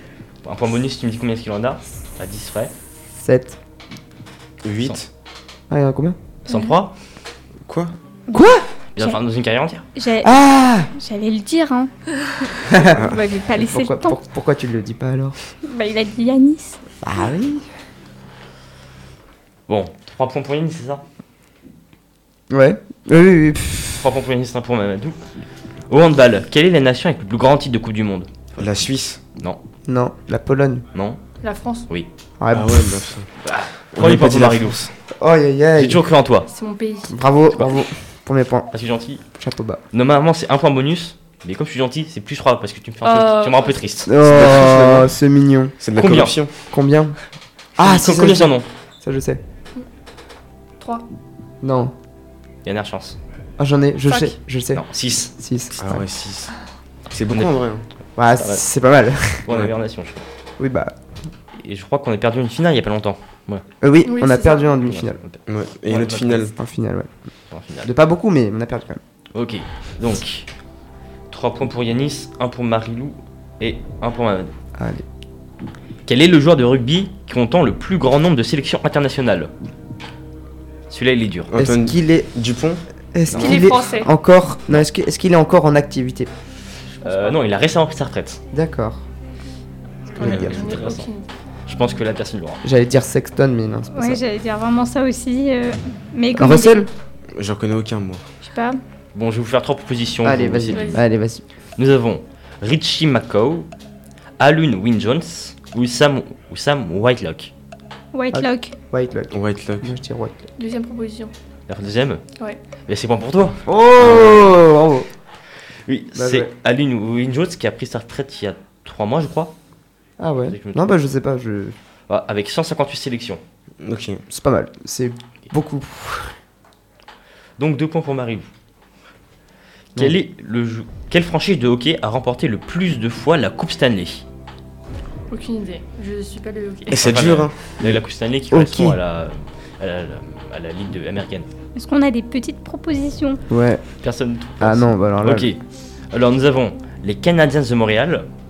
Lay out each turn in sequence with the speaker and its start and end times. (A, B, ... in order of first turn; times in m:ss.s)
0:00.4-0:02.7 A
0:03.2-0:03.6 B
0:04.6-0:05.1 C
0:05.7-0:06.2 B
0:06.5-0:06.7 D
0:06.5-0:06.9 A
0:07.7-0:08.0 C
0:08.3-0:09.2 D
0:08.3-0:08.7 B
0:09.0-0:09.9 A
0:10.0-0:11.9 D
0:10.2-0:10.9 B
0:12.7-0:13.0 B
0:12.7-0:14.2 D
0:12.9-0:13.2 C
0:13.6-0:15.4 B
0:15.6-0:16.8 D
0:17.0-0:17.6 B
0:19.7-0:21.0 A
0:22.5-0:24.1 B
0:24.0-0:25.2 A
0:25.9-0:28.3 A
0:28.6-0:29.2 C
0:29.9-0:30.8 B
0:31.0-0:31.2 A
0:31.4-0:31.9 E
0:32.4-0:33.0 B
0:32.5-0:33.3 C
0:33.4-0:34.9 A
0:34.0-0:34.9 C
0:35.2-0:36.0 B
0:35.8-0:36.5 A
0:36.5-0:37.2 E
0:37.1-0:38.7 B
0:38.7-0:39.2 A
0:39.4-0:39.8 B
0:39.9-0:44.1 A
0:43.0-0:43.9 E
0:44.1-0:45.7 B
0:44.2-0:45.2 C
0:45.8-0:46.5 C
0:46.0-0:46.4 A
0:46.7-0:47.2 B
0:47.8-0:48.7 A
0:47.8-0:49.4 B
0:50.8-0:51.0 E
0:51.6-0:51.9 B
0:52.6-0:53.2 A
0:53.6-0:56.0 B
0:54.7-0:55.3 A
0:55.8-0:56.5 C
0:57.1-0:57.8 C
0:57.3-0:57.5 A
0:58.2-0:59.4 B
0:58.4-0:58.6 A
0:59.4-1:00.3 A
1:00.6-1:00.9 B
1:01.6-1:03.6 A
1:03.8-1:05.2 B
1:04.0-1:04.8 E
1:04.8-1:06.6 A
1:05.5-1:06.5 C
1:06.6-1:07.1 B
1:07.5-1:07.9 A
1:07.8-1:09.0 B
1:09.3-1:10.5 A
1:11.3-1:14.5 A
1:14.8-1:15.0 B
1:16.1-1:19.5 A
1:20.9-1:21.5 A
1:21.5-1:22.8 C
1:21.6-1:22.3 B
1:23.1-1:26.3 B
1:23.3-1:23.7 A
1:23.3-1:24.1 E
1:27.0-1:28.4 A
1:27.0-1:27.4 E
1:28.5-1:29.0 B
1:30.2-1:31.3 E
1:30.2-1:31.1 A
1:30.2-1:30.7 C
1:31.7-1:32.6 A
1:32.6-1:34.2 B
1:33.9-1:36.8 D
1:36.3-1:36.9 B
1:37.4-1:38.2 C
1:38.4-1:38.8 D
1:39.1-1:41.0 A
1:40.2-1:41.4 B
1:40.7-1:41.0 E
1:41.8-1:43.7 A
1:44.4-1:47.5 A
1:48.1-1:48.8 D
1:48.3-1:50.4 B
1:49.3-1:49.9 C
1:50.6-1:51.3 E
1:51.7-1:52.2 A
1:52.9-1:54.6 A
1:53.7-1:55.1 B
1:55.9-1:59.5 A
1:56.2-1:56.5 B
2:00.2-2:01.8 B
2:00.5-2:00.9 A
2:02.1-2:03.4 A
2:03.8-2:04.2 C
2:04.3-2:06.4 B
2:07.6-2:08.5 A
2:10.0-2:14.2 A
2:15.3-2:17.0 E
2:16.9-2:17.6 C
2:16.9-2:21.5 A
2:17.8-2:19.0 B
2:21.8-2:23.4 D
2:23.5-2:23.8 B
2:24.0-2:25.6 A
2:24.6-2:25.5 B
2:26.1-2:28.3 A